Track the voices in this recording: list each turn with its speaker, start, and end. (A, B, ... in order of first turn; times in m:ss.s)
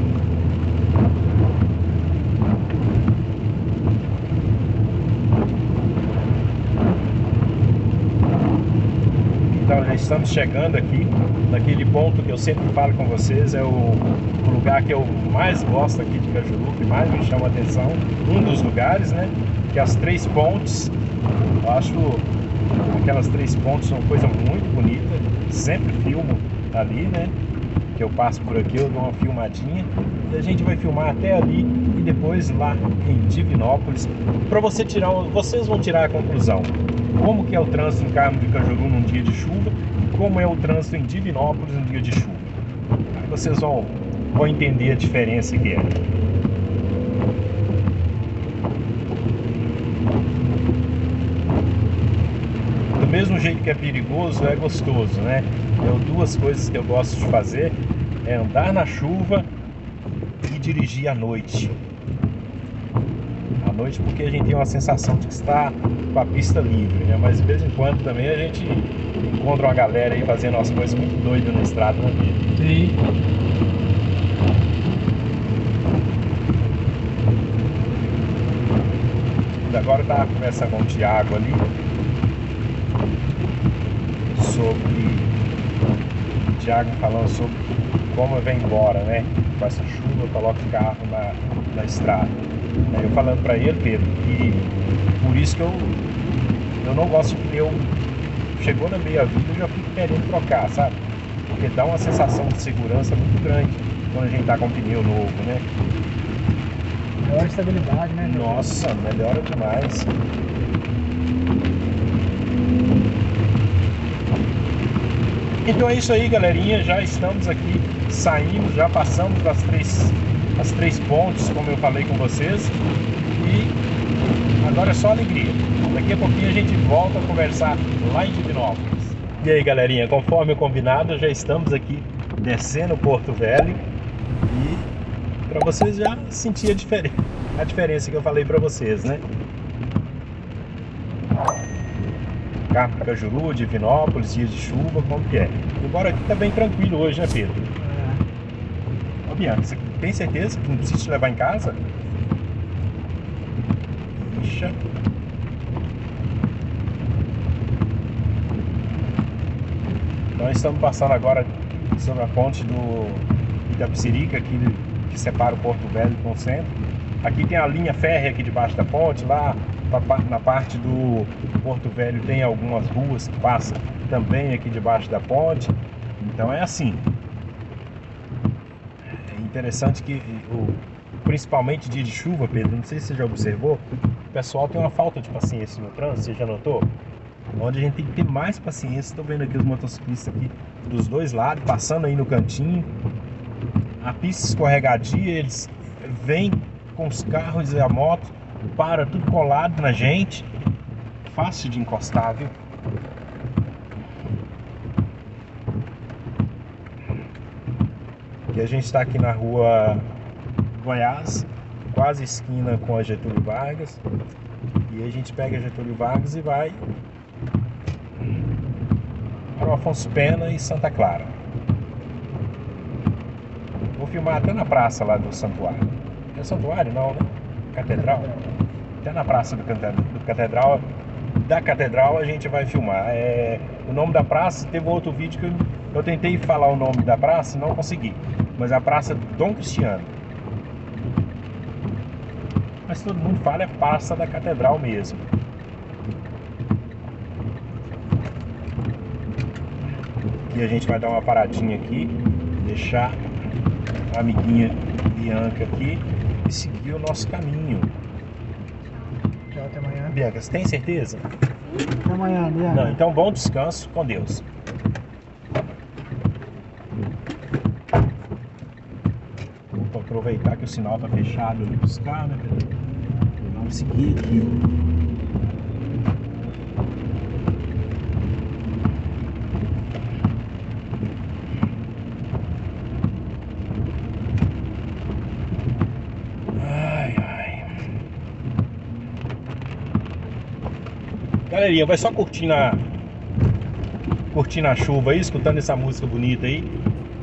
0:09.5-0:20.9 A
0:21.6-0:22.3 A
0:22.9-0:27.3 A
0:27.9-0:42.5 A
0:43.1-0:46.0 A
0:53.0-0:59.5 A
1:00.4-1:01.8 A
1:03.6-1:12.4 A
1:12.6-1:13.0 B
1:19.6-1:21.6 A
1:24.3-1:25.3 A
1:26.4-1:32.4 A
1:32.9-1:34.7 A
1:35.2-1:36.0 A
1:36.8-1:37.9 A
1:38.5-1:41.0 A
1:41.5-1:45.6 A
1:47.2-1:48.8 B
1:48.2-1:50.1 A
1:55.6-2:02.8 A
2:03.3-2:03.8 A
2:04.6-2:13.8 A
2:14.4-2:14.9 A
2:15.5-2:19.2 A
2:22.7-2:27.7 A
2:27.8-2:28.2 B
2:29.2-2:31.8 A
2:34.2-2:34.8 A
2:40.3-2:57.1 A
2:59.2-3:06.9 A
3:07.6-3:12.9 A
3:14.0-3:20.5 A
3:21.2-3:22.5 A
3:28.5-3:30.0 A
3:30.7-3:34.0 A
3:34.9-3:36.8 A
3:39.5-3:41.3 A
3:44.0-3:48.3 A
3:49.0-3:50.9 A
3:51.4-4:00.1 A
4:02.8-4:05.2 A
4:10.5-4:13.2 A
4:14.1-4:17.9 A
4:19.5-4:20.2 B
4:20.1-4:21.2 A
4:22.0-4:23.0 B
4:22.7-4:24.4 A
4:29.7-4:32.7 A
4:33.4-4:34.7 A
4:46.6-4:47.8 A
4:51.5-4:52.8 A
4:54.3-4:56.7 A